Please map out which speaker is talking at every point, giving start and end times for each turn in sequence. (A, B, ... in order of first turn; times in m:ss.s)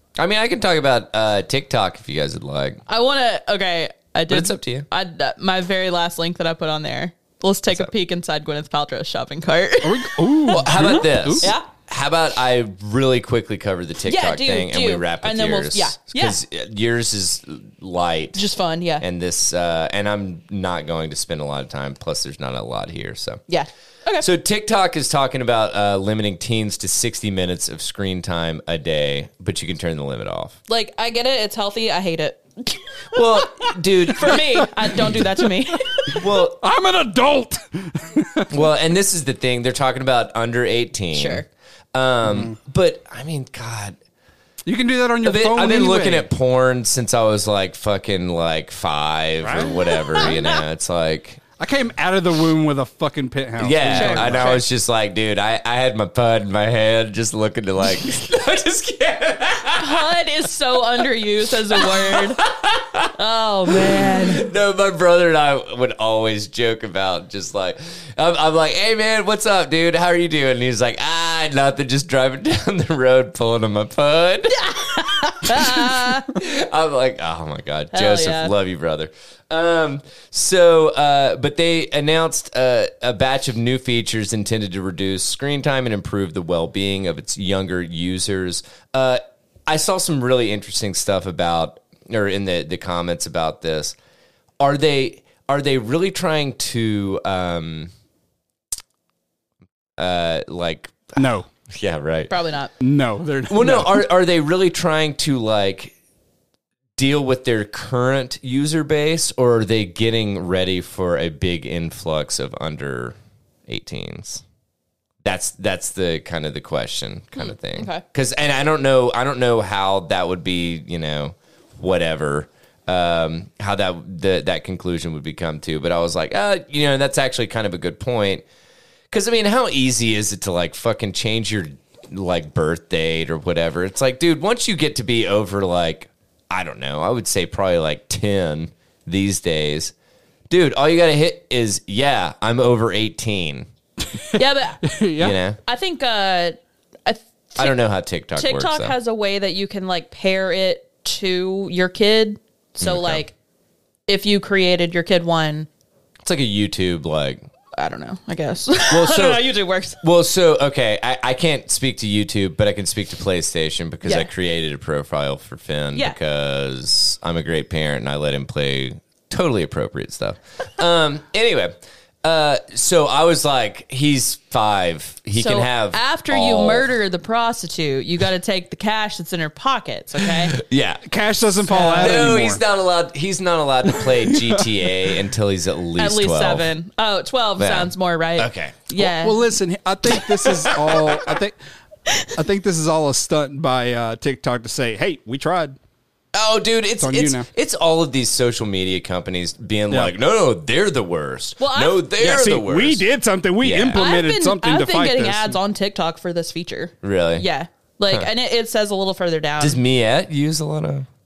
0:00.2-0:02.8 A
0:02.9-0:11.7 B
0:04.3-0:04.8 A
0:09.8-0:11.5 C
0:10.5-0:18.4 A
0:14.0-0:16.4 B
0:18.3-0:19.0 B
0:19.0-0:23.4 A
0:23.5-0:24.2 B
0:24.2-0:30.6 A
0:30.7-0:36.2 B
0:33.1-0:34.4 A
0:36.1-0:36.6 A
0:36.6-0:38.6 C
0:38.5-0:44.0 A
0:41.1-0:41.4 B
0:42.2-0:42.5 C
0:44.6-0:46.2 C
0:45.2-0:51.4 A
0:49.4-0:49.8 C
0:49.9-0:50.6 B
0:51.6-0:54.5 C
0:53.6-1:00.1 A
0:53.9-0:54.6 B
0:59.8-1:02.4 B
1:01.7-1:03.1 A
1:03.2-1:04.5 B
1:03.7-1:14.6 A
1:14.5-1:16.3 B
1:15.4-1:34.0 A
1:17.9-1:18.5 B
1:34.6-1:37.9 A
1:40.0-1:41.2 A
1:41.2-1:41.5 C
1:41.7-1:42.3 A
1:42.3-1:42.7 B
1:42.8-1:44.0 C
1:43.5-1:45.9 A
1:47.0-1:53.2 A
1:53.7-1:54.4 A
1:55.2-2:08.4 A
1:57.4-1:58.0 B
2:09.1-2:19.9 A
2:20.5-2:23.7 A
2:24.3-2:24.8 B
2:24.8-2:25.4 C
2:25.2-2:25.6 A
2:25.6-2:27.8 B
2:27.6-2:28.9 A
2:28.4-2:33.3 B
2:32.8-2:33.2 A
2:34.1-2:35.7 B
2:36.2-2:37.5 A
2:37.7-2:40.0 B
2:38.9-2:39.5 A
2:40.0-2:56.9 A
2:44.0-2:44.3 B
2:55.4-3:00.6 B
3:00.2-3:01.0 A
3:01.0-3:02.6 C
3:01.6-3:02.3 B
3:02.0-3:06.7 A
3:04.0-3:04.6 C
3:06.0-3:09.4 B
3:07.6-3:08.8 A
3:09.0-3:11.6 C
3:12.3-3:15.8 C
3:16.3-3:23.0 A
3:17.0-3:17.5 C
3:21.6-3:22.1 B
3:22.2-3:25.6 C
3:23.6-3:24.0 A
3:23.9-3:29.8 B
3:27.0-3:27.4 A
3:29.6-3:31.1 A